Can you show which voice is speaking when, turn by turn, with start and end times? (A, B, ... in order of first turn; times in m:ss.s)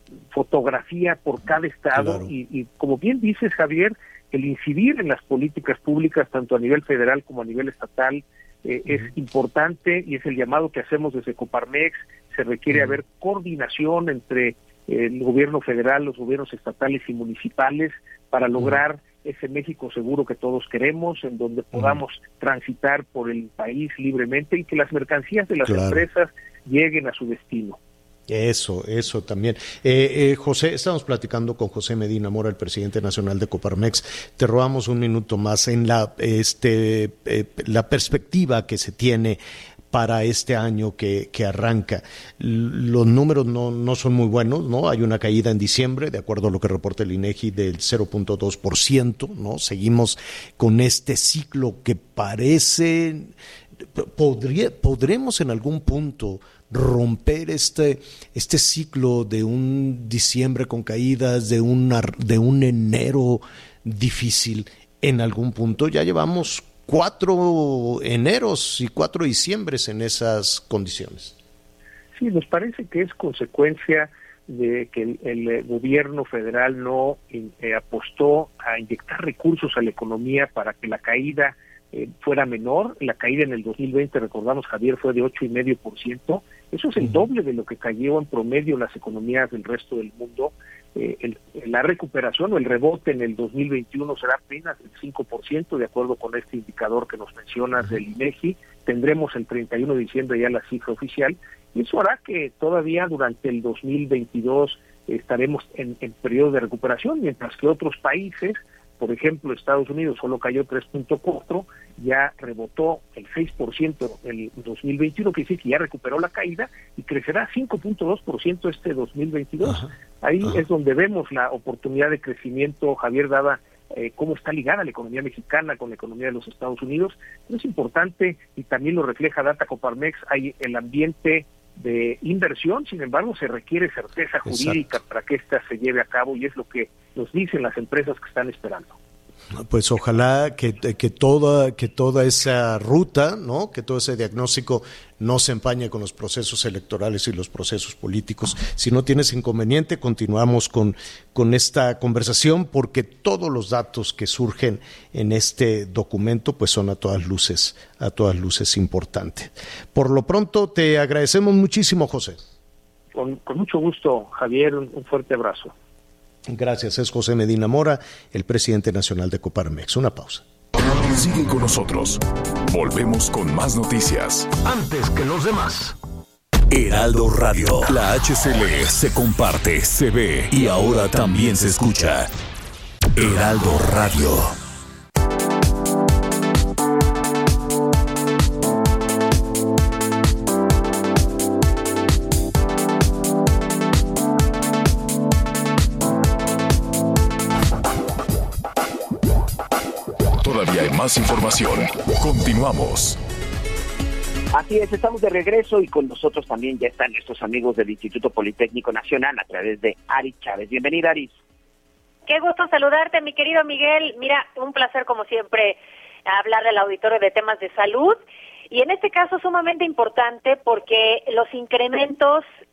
0:00.3-0:27.8 A
0:01.9-0:02.3 B
0:25.6-0:26.0 B
0:28.3-0:39.4 B
0:39.9-0:53.3 B
0:53.9-1:11.4 B
1:12.1-2:19.0 A
2:14.4-2:14.8 B
2:19.5-2:42.5 B
2:43.1-2:45.7 A
2:46.5-2:50.4 B
2:51.1-2:55.9 C
2:56.7-3:02.3 C
3:03.2-3:04.5 C
3:20.4-3:23.2 C
3:24.5-3:31.3 D
3:32.3-3:38.2 E
3:38.7-3:42.4 E